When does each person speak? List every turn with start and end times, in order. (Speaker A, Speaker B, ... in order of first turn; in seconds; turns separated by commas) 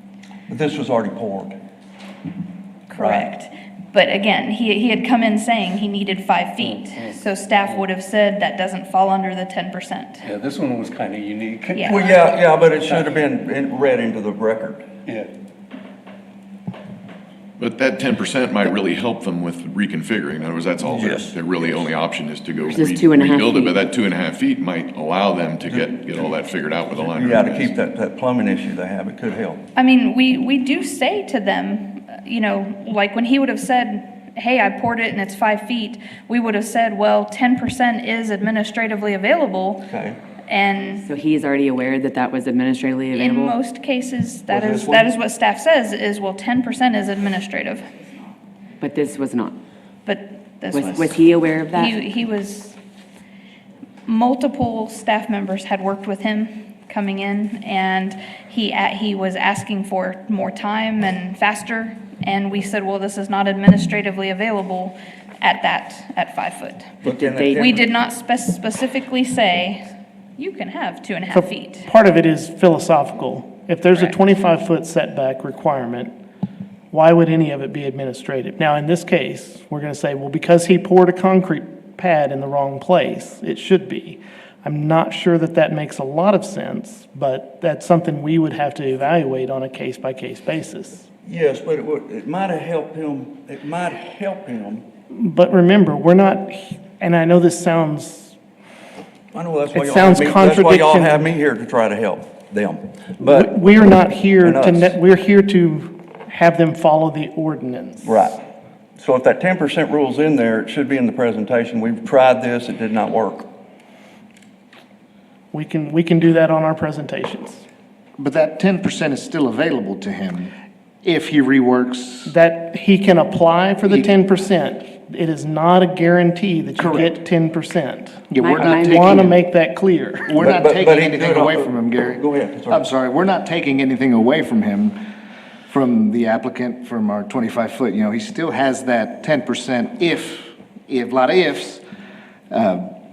Speaker A: 0.5-1.6, Speaker B: 2.9-10.3, Speaker A: 3.0-3.3, Speaker C: 6.6-7.8, Speaker C: 10.2-13.2, Speaker B: 11.7-12.1, Speaker A: 11.9-14.9, Speaker C: 15.1-15.3, Speaker D: 17.6-27.7, Speaker A: 20.9-21.3, Speaker E: 22.6-23.9, Speaker A: 27.1-29.6, Speaker B: 29.8-39.9, Speaker A: 39.9-40.2, Speaker B: 40.5-41.1, Speaker E: 41.0-43.6, Speaker B: 43.1-47.9, Speaker A: 44.5-45.1, Speaker E: 48.8-49.6, Speaker B: 50.0-52.8, Speaker E: 50.7-52.0, Speaker B: 54.1-69.8, Speaker A: 67.0-67.9, Speaker E: 67.1-67.7, Speaker B: 70.4-71.9, Speaker F: 71.3-76.1, Speaker F: 76.9-91.1, Speaker A: 91.2-94.8, Speaker F: 95.1-98.3, Speaker A: 99.3-103.7, Speaker F: 99.7-101.3, Speaker F: 103.2-108.3, Speaker A: 104.4-105.0, Speaker A: 108.0-108.4, Speaker A: 109.0-113.5, Speaker F: 115.5-117.6, Speaker G: 118.2-120.5, Speaker G: 121.0-122.3, Speaker F: 122.3-130.4, Speaker G: 126.8-127.1, Speaker G: 128.3-129.3, Speaker E: 128.4-129.3, Speaker G: 130.3-135.0, Speaker A: 130.4-132.8, Speaker G: 135.7-141.8, Speaker G: 142.5-142.9